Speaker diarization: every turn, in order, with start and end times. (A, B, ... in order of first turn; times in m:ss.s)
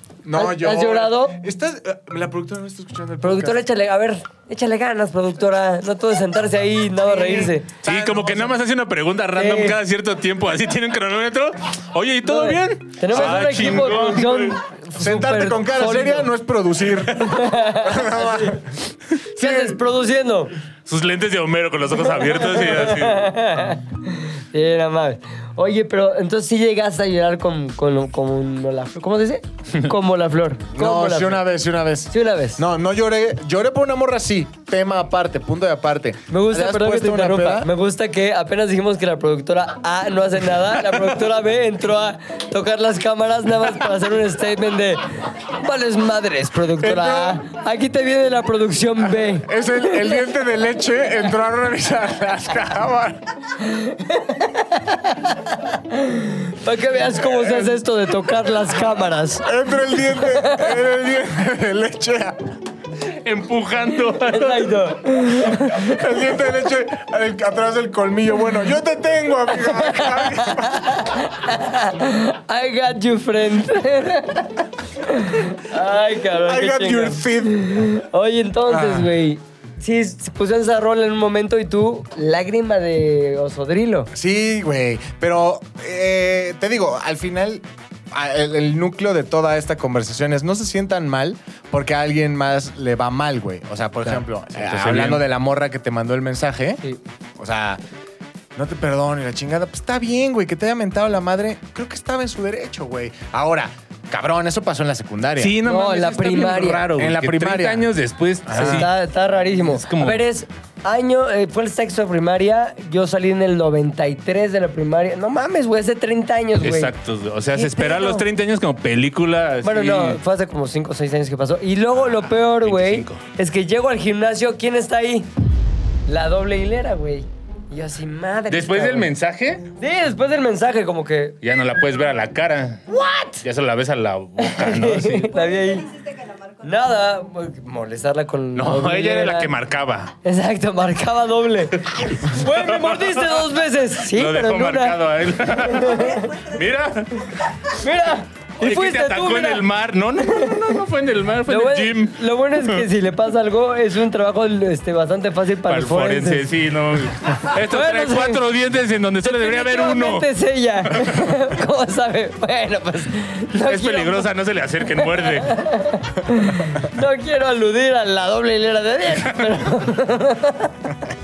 0:00.2-0:03.6 A
0:00.3-0:01.4 B
0:03.2-0:07.7 B
0:07.1-0:08.6 A
0:07.8-0:14.6 C
0:09.3-0:09.8 B
0:12.2-0:16.3 B
0:13.2-0:13.8 A
0:15.0-0:18.7 A
0:17.2-0:18.6 B
0:19.4-0:20.5 B
0:19.4-0:19.8 A
0:20.9-0:23.3 C
0:22.2-0:31.4 B
0:30.7-0:37.7 A
0:32.1-0:32.6 B
0:36.3-0:50.2 B
0:46.8-0:47.4 A
0:49.2-0:53.2 A
0:53.6-0:59.5 B
0:57.4-0:57.7 A
0:59.4-1:02.4 A
1:00.0-1:00.8 B
1:03.0-1:04.9 C
1:04.2-1:06.0 B
1:05.7-1:11.1 A
1:09.5-1:24.1 B
1:16.3-1:17.8 A
1:18.7-1:19.1 A
1:24.1-1:36.8 A
1:34.6-1:35.2 C
1:37.4-1:37.8 A
1:38.6-1:45.6 A
1:45.4-1:48.9 C
1:45.6-1:46.8 B
1:46.9-1:47.9 A
1:48.4-1:48.9 A
1:48.5-1:56.9 B
1:49.6-1:50.2 C
1:56.6-2:00.2 C
1:57.5-1:58.2 B
1:59.6-2:05.3 B
2:01.9-2:03.2 C
2:06.1-2:09.1 B
2:08.5-2:09.6 C
2:09.8-2:11.4 B
2:11.4-2:12.8 C
2:12.9-2:13.4 B
2:13.4-2:15.4 C
2:14.4-2:16.0 B
2:16.5-2:19.5 B
2:18.5-2:20.1 C
2:20.2-2:26.4 B
2:22.0-2:27.4 C
2:27.7-2:29.6 B
2:28.6-2:32.8 C
2:30.2-2:30.7 B
2:31.5-2:36.5 B
2:35.7-2:40.3 C
2:37.7-2:38.4 B
2:39.2-2:44.3 B
2:40.9-2:41.2 C
2:43.6-2:45.6 C
2:45.0-2:50.7 B
2:49.3-2:49.6 C